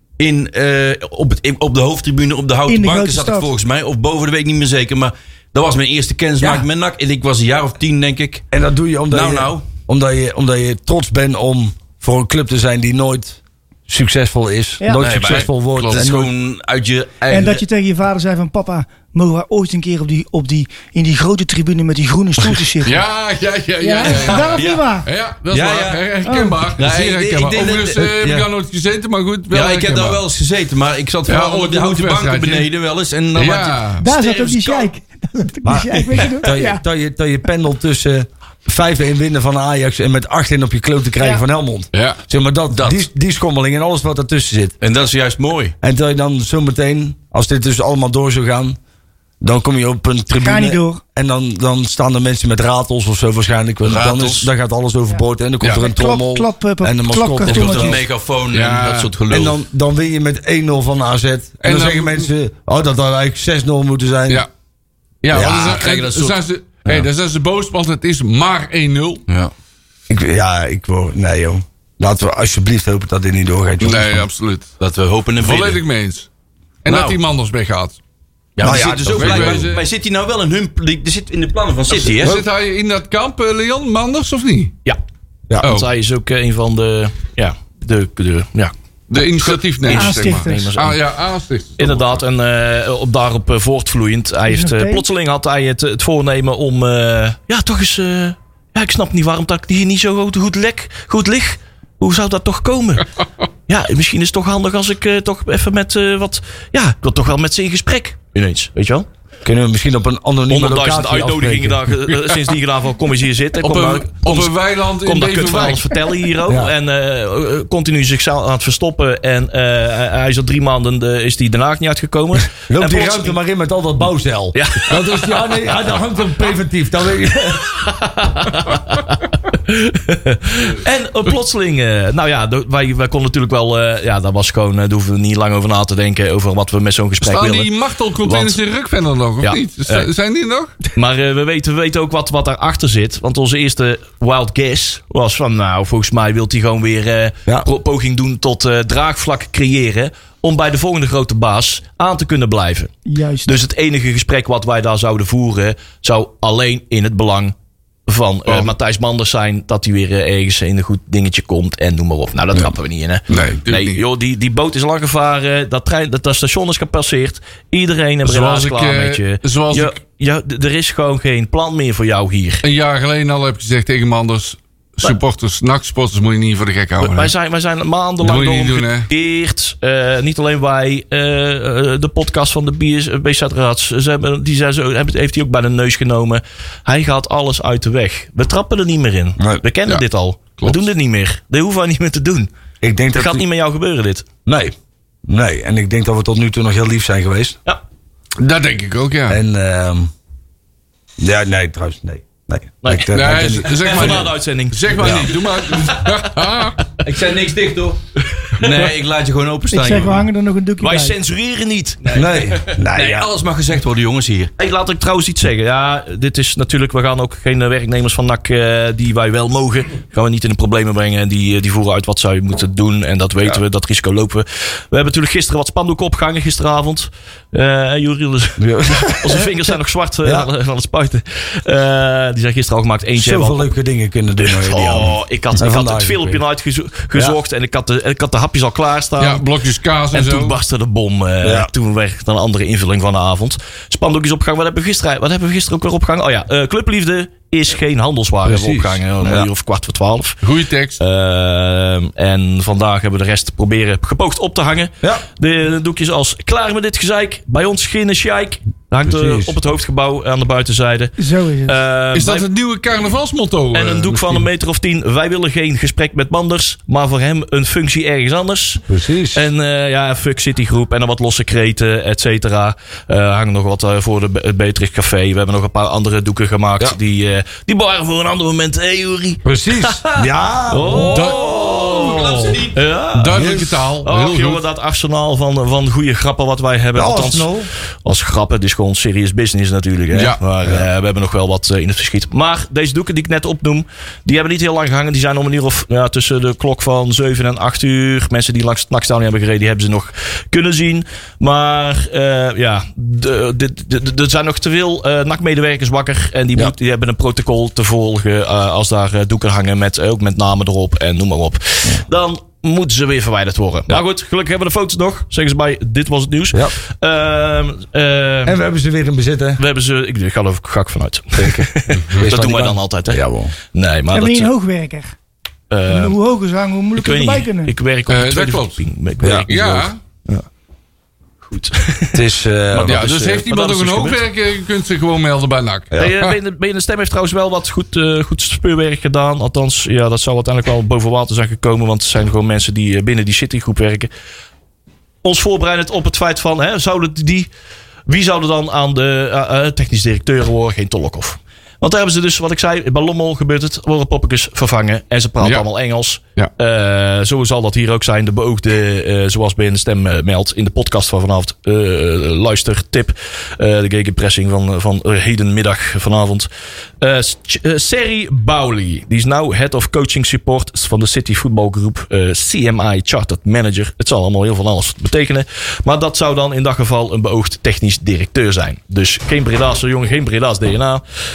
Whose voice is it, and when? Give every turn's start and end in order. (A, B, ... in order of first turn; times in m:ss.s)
0:00.2-0:08.5 A
0:02.7-0:03.5 B
0:06.4-0:06.7 C
0:08.5-0:16.3 C
0:09.1-0:09.7 A
0:15.0-0:17.6 A
0:15.0-0:16.1 D
0:17.3-0:23.0 B
0:22.8-0:30.2 D
0:23.8-0:25.1 B
0:24.0-0:24.8 A
0:25.5-0:26.2 A
0:26.2-0:26.7 B
0:26.8-0:28.1 A
0:27.9-0:28.5 C
0:29.5-0:34.8 A
0:31.3-0:32.7 D
0:33.4-0:34.1 D
0:34.0-0:36.8 B
0:35.6-0:44.8 C
0:35.9-0:36.3 A
0:41.9-0:42.2 D
0:42.7-0:43.0 A
0:44.8-0:45.7 A
0:45.8-0:48.8 C
0:49.4-0:58.0 C
0:50.4-0:51.0 B
0:53.9-0:54.4 A
0:53.9-0:54.4 D
0:55.7-0:58.0 B
0:57.4-0:59.6 A
0:58.5-0:59.1 D
0:59.3-1:04.5 C
1:01.6-1:02.3 D
1:05.2-1:09.2 D
1:05.3-1:05.9 C
1:05.3-1:06.4 A
1:10.1-1:14.3 C
1:13.8-1:14.7 D
1:14.8-1:15.8 A
1:15.4-1:16.3 D
1:16.8-1:18.0 D
1:16.9-1:17.2 A
1:18.6-1:22.4 A
1:18.6-1:19.7 C
1:18.7-1:19.8 D
1:22.1-1:24.8 D
1:22.2-1:22.4 C
1:25.6-1:25.9 D
1:25.6-1:31.0 E
1:29.1-1:32.2 D
1:29.9-1:30.7 B
1:31.8-1:43.1 E
1:34.5-1:35.0 B
1:43.7-1:49.1 E
1:49.4-1:51.9 C
1:50.5-2:03.4 E
1:53.6-1:56.1 D
1:56.5-1:56.7 C
2:02.6-2:07.7 C
2:04.5-2:05.0 E
2:07.7-2:17.7 E
2:17.2-2:20.8 D
2:18.2-2:18.6 E
2:19.4-2:20.1 E
2:20.9-2:32.9 E
2:33.1-2:33.6 B
2:33.4-2:37.5 E
2:38.1-2:52.6 E
2:38.5-2:38.7 D
2:43.3-2:44.0 D
2:48.2-2:50.0 D
2:52.6-2:57.3 D
2:57.0-3:12.5 E
2:58.2-2:59.1 D
3:10.6-3:10.9 D
3:12.8-3:13.4 C
3:13.1-3:14.3 E
3:14.5-3:14.7 C
3:15.3-3:17.6 C
3:18.4-3:19.4 D
3:19.3-3:20.1 C
3:21.2-3:24.2 C
3:22.8-3:26.3 E
3:23.1-3:26.8 D
3:25.0-3:25.3 C
3:27.0-3:28.0 A
3:28.2-3:28.9 E
3:28.6-3:30.2 A
3:29.7-3:31.2 B
3:30.8-3:33.1 E
3:32.1-3:33.3 C
3:32.9-3:34.5 A
3:34.6-3:53.7 E
3:48.6-3:50.5 C
3:53.2-3:56.4 C
3:54.4-3:59.5 E
3:59.2-4:00.6 D
4:00.1-4:10.4 E
4:01.4-4:01.7 C
4:08.4-4:09.5 C
4:10.4-4:11.0 D
4:11.0-4:21.1 E
4:19.0-4:19.6 C
4:21.2-4:21.8 B
4:21.7-4:22.5 E
4:22.1-4:24.3 D
4:23.7-4:47.5 E
4:28.9-4:29.5 C
4:39.4-4:42.4 C
4:41.1-4:41.4 D
4:41.4-4:42.8 A
4:43.2-4:44.6 D
4:43.3-4:43.8 C
4:47.0-4:47.7 C
4:48.0-5:18.6 E
4:50.1-4:50.4 D
5:18.4-5:19.6 C
5:19.6-5:24.5 E
5:21.4-5:23.5 C
5:24.1-5:25.1 B
5:25.7-5:26.2 E
5:25.9-5:27.7 B
5:27.0-5:30.4 E
5:28.1-5:28.8 D
5:29.2-5:29.5 C
5:29.5-5:30.0 D
5:31.4-5:34.2 E
5:32.1-5:33.1 C
5:32.8-5:36.4 D
5:35.9-5:44.1 E
5:45.2-5:47.5 E
5:48.1-6:06.5 E
5:55.4-5:55.7 D
6:07.0-6:21.0 E